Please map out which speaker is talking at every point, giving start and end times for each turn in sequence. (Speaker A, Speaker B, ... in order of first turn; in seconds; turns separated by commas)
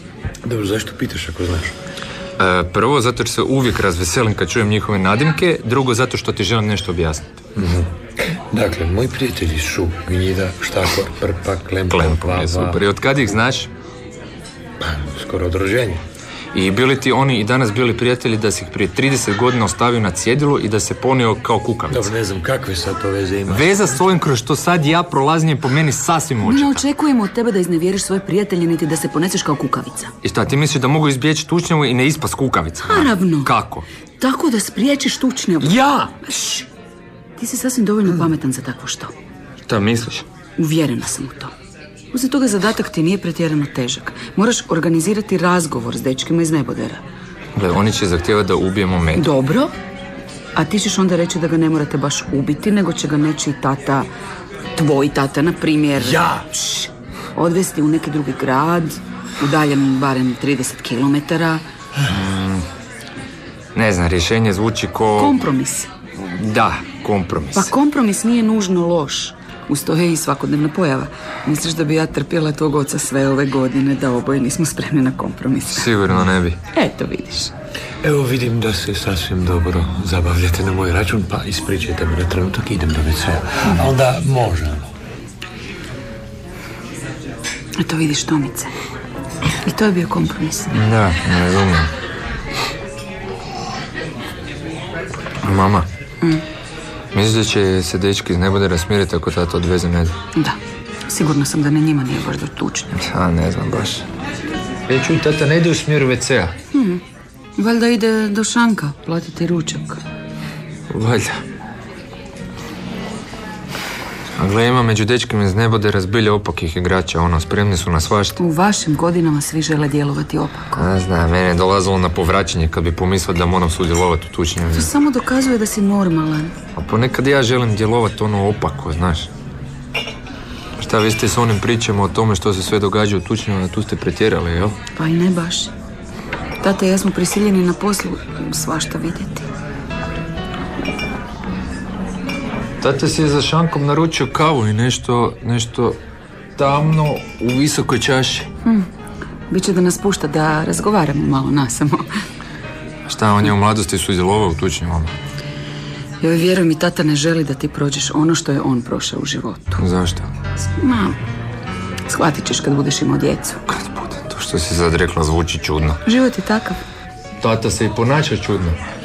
Speaker A: 0.4-1.8, Speaker B: 2.4-7.4, Speaker A: 7.5-12.8, Speaker B: 11.9-13.7, Speaker A: 14.8-16.0, Speaker B: 16.5-22.1, Speaker A: 21.9-24.0, Speaker B: 23.5-26.8, Speaker C: 26.4-30.1, Speaker B: 30.2-33.9, Speaker C: 32.8-33.5, Speaker C: 34.2-36.6, Speaker B: 35.6-36.1, Speaker C: 37.4-39.1, Speaker B: 39.7-40.2, Speaker C: 40.6-41.5, Speaker C: 42.1-47.0, Speaker B: 47.5-49.3, Speaker C: 49.1-49.7, Speaker C: 50.5-54.1, Speaker C: 54.7-61.6, Speaker A: 56.0-56.4, Speaker B: 62.1-62.6, Speaker B: 63.7-65.4, Speaker C: 65.2-65.9, Speaker B: 66.2-67.7, Speaker C: 67.5-75.9, Speaker B: 75.7-76.6, Speaker C: 76.7-77.5, Speaker A: 78.0-84.9, Speaker C: 87.8-88.7, Speaker C: 89.6-90.7, Speaker B: 90.7-91.9, Speaker B: 95.4-95.9, Speaker B: 97.1-100.1, Speaker C: 100.3-103.0, Speaker B: 103.0-104.0, Speaker B: 104.9-106.5, Speaker C: 106.7-107.0, Speaker C: 107.6-110.0, Speaker B: 110.9-111.4, Speaker B: 114.4-118.4, Speaker C: 118.4-120.8, Speaker B: 120.8-124.9, Speaker C: 124.7-126.5, Speaker B: 126.8-129.3, Speaker B: 130.8-134.8, Speaker C: 134.9-135.7, Speaker C: 136.6-139.5, Speaker B: 142.8-146.0, Speaker B: 146.6-148.5, Speaker C: 149.5-152.1, Speaker B: 153.1-155.1, Speaker C: 156.2-159.8, Speaker B: 159.8-160.3, Speaker C: 160.8-161.2, Speaker C: 162.1-163.6, Speaker B: 163.7-166.0, Speaker C: 166.0-166.8, Speaker B: 167.4-168.8